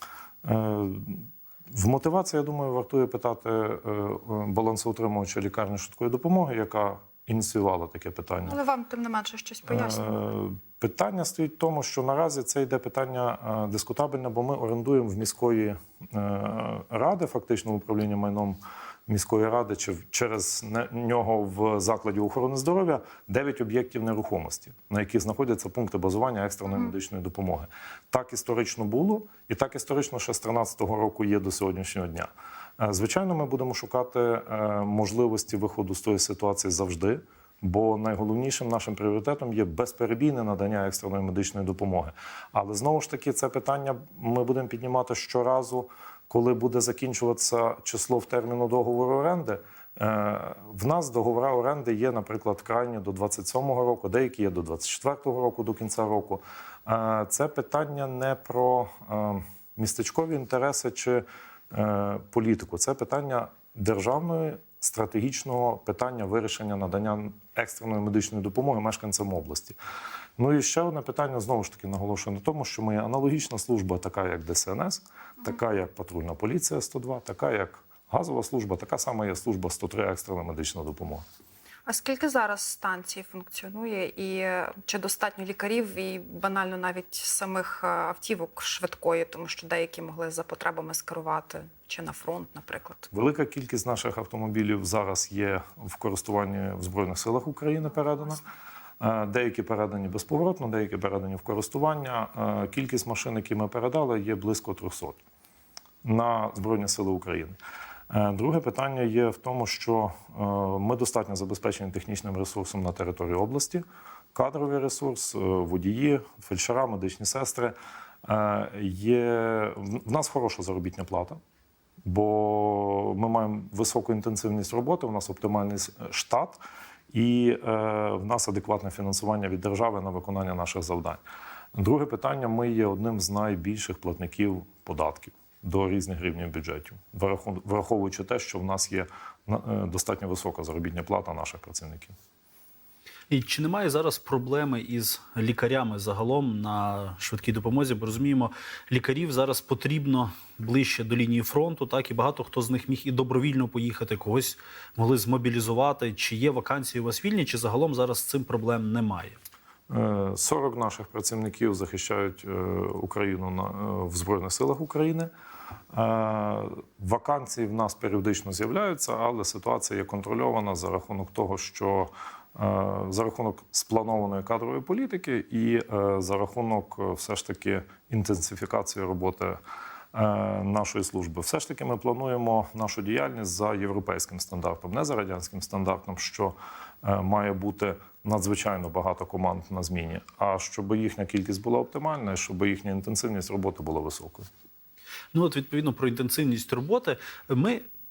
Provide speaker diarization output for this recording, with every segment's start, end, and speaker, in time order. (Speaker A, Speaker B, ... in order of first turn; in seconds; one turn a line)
Speaker A: 0.4-8.6
Speaker B: 8.4-10.3
Speaker A: 9.7-69.8
Speaker A: 70.4-81.2
Speaker B: 81.8-93.1
Speaker A: 93.1-98.4
Speaker A: 99.0-105.2
Speaker A: 106.0-107.6
Speaker A: 108.1-113.8
Speaker A: 114.3-121.4
Speaker A: 122.0-126.6
Speaker A: 127.1-131.2
Speaker A: 131.7-142.2
Speaker C: 143.3-159.4
Speaker A: 159.9-165.3
Speaker A: 165.9-179.6
Speaker A: 180.1-194.5
Speaker C: 195.3-197.8